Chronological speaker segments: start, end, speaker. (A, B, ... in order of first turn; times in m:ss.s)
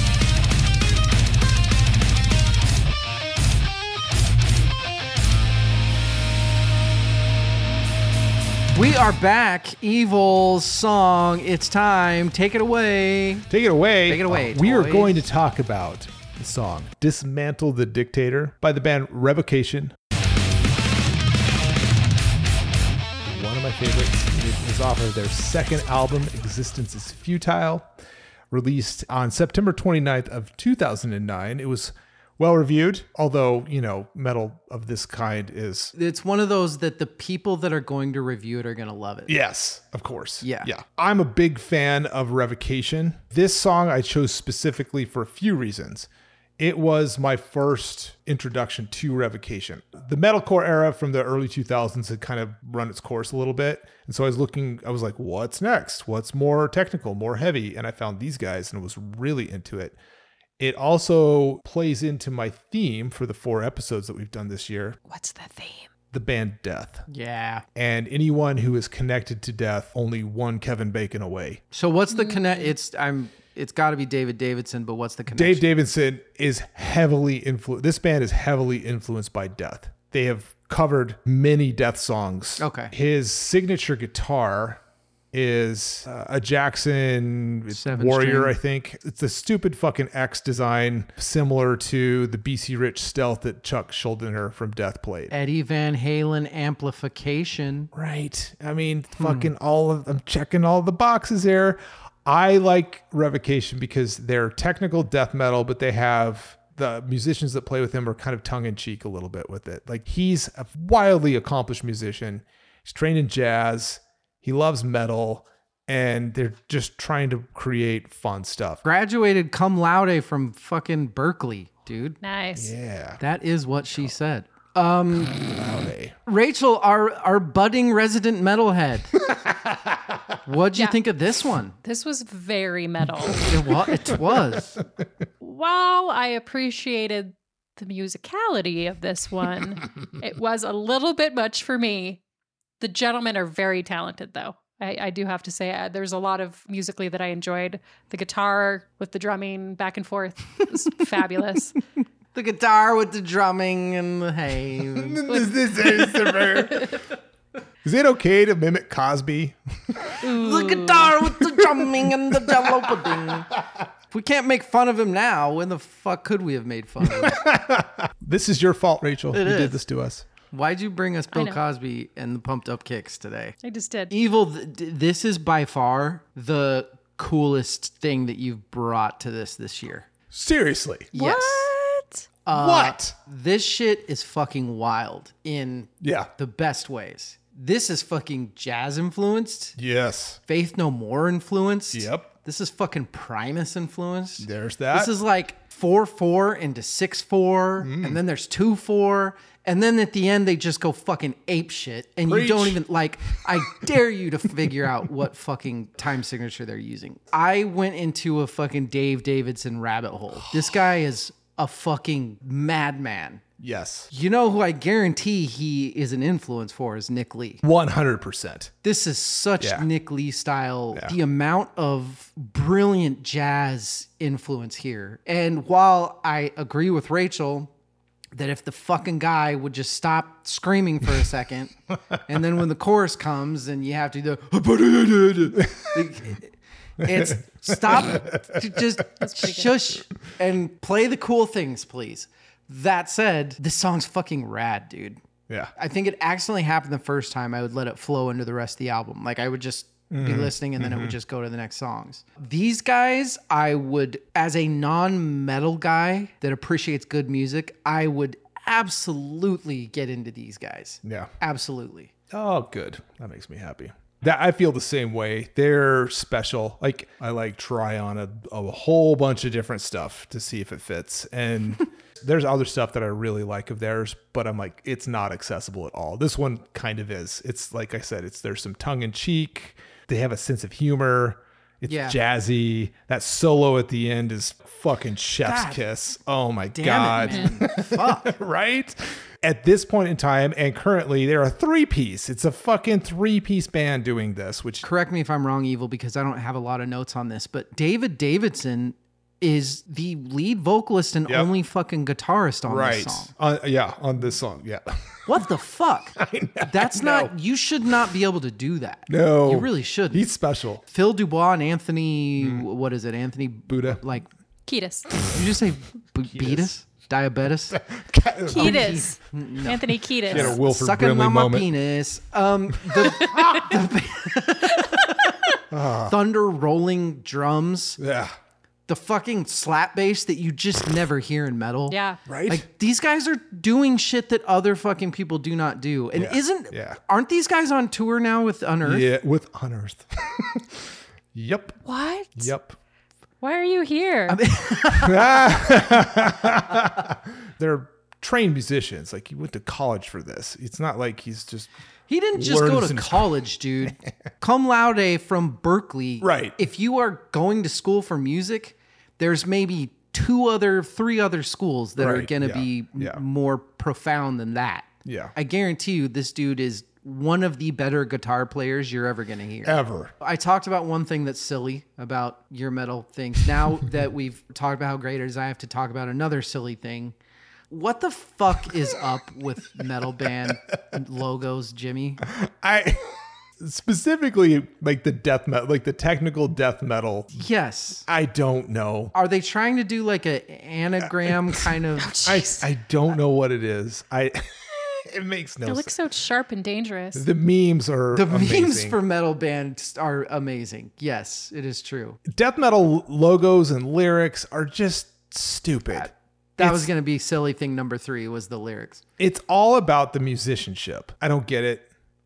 0:08.7-0:13.5 A
0:13.5-0:20.0 B
0:14.1-0:15.2 A
0:23.2-0:27.9 B
0:28.5-0:35.9 B
0:36.0-0:39.3 A
0:39.3-0:46.1 B
0:40.4-0:40.7 A
0:46.6-1:00.0 B
1:00.6-1:05.0 B
1:05.1-1:05.9 C
1:06.1-1:07.1 B
1:07.1-1:07.6 A
1:07.8-1:11.6 B
1:11.7-1:15.6 A
1:12.1-1:12.7 C
1:15.3-1:24.8 B
1:22.6-1:22.9 A
1:25.3-1:35.3 B
1:27.7-1:28.6 A
1:35.3-1:37.9 A
1:37.9-1:58.8 B
1:39.2-1:39.5 A
1:58.8-2:02.2 A
2:02.2-2:02.7 C
2:02.6-2:03.2 B
2:03.2-2:05.4 A
2:05.3-2:06.2 B
2:06.3-2:09.2 A
2:09.3-2:10.2 B
2:10.4-2:11.8 A
2:11.8-2:13.5 C
2:13.4-2:14.8 A
2:15.4-2:22.2 C
2:22.8-2:31.8 C
2:32.3-2:35.2 A
2:34.9-2:37.0 B
2:35.3-2:37.0 C
2:37.8-2:40.2 B
2:40.2-2:41.1 C
2:40.2-2:43.5 A
2:41.5-2:43.8 B
2:44.1-2:47.4 A
2:47.0-2:50.3 B
2:49.3-2:49.8 A
2:50.5-2:53.6 A
2:51.3-2:51.6 C
2:53.6-2:54.1 C
2:54.1-3:00.1 A
3:00.3-3:01.1 B
3:01.1-3:01.7 A
3:01.1-3:02.3 C
3:02.4-3:09.8 A
3:02.5-3:03.2 B
3:06.0-3:06.3 B
3:09.8-3:10.4 B
3:10.5-3:33.4 A
3:11.9-3:12.3 B
3:14.4-3:15.1 B
3:17.8-3:18.2 B
3:22.3-3:22.8 B
3:33.6-3:34.1 B
3:34.1-3:37.6 A
3:37.6-3:38.7 B
3:38.8-3:47.7 A
3:39.6-3:39.9 B
3:48.4-4:05.2 A
3:55.6-3:56.0 B
3:57.1-3:57.4 B
3:57.9-3:58.4 B
3:59.2-3:59.9 C
4:05.8-4:22.1 A
4:10.1-4:11.2 B
4:21.0-4:21.3 B
4:22.3-4:54.8 B
4:41.9-4:42.2 A
4:45.4-4:45.8 A
4:46.7-4:48.4 A
4:47.2-4:47.5 C
4:54.8-5:03.3 A
5:02.7-5:05.4 B
5:05.3-5:10.2 A
5:06.2-5:07.3 B
5:09.1-5:10.8 B
5:10.9-5:14.3 A
5:12.4-5:12.6 B
5:13.7-5:14.0 B
5:14.7-5:15.1 C
5:15.3-5:17.8 A
5:16.3-5:16.7 B
5:17.7-5:19.0 B
5:18.5-5:20.6 C
5:18.5-5:25.3 A
5:20.3-5:21.7 B
5:23.0-5:23.7 C
5:23.2-5:23.7 B
5:24.8-5:25.6 C
5:25.7-5:26.2 B
5:26.1-5:28.0 A
5:28.0-5:28.4 B
5:28.9-5:32.0 A
5:31.9-5:32.2 C
5:32.3-5:32.6 B
5:32.5-5:39.1 A
5:36.2-5:37.0 B
5:38.8-5:41.8 B
5:41.9-5:42.5 C
5:42.4-5:42.8 B
5:43.4-5:44.4 C
5:44.3-5:46.0 A
5:44.9-5:51.7 B
5:52.1-6:17.2 A
5:52.4-5:53.4 B
5:56.2-5:56.6 B
6:02.0-6:03.2 B
6:05.0-6:05.3 B
6:09.6-6:10.1 B
6:17.7-6:22.2 A
6:22.3-6:27.4 B
6:27.4-6:28.1 A
6:28.1-6:29.1 B
6:29.1-6:32.1 A
6:31.2-6:31.6 B
6:32.0-6:32.7 C
6:32.2-6:35.9 B
6:35.7-6:37.2 C
6:37.2-6:39.0 B
6:38.1-6:42.2 A
6:42.3-6:46.9 B
6:45.9-6:49.0 A
6:49.2-6:51.9 B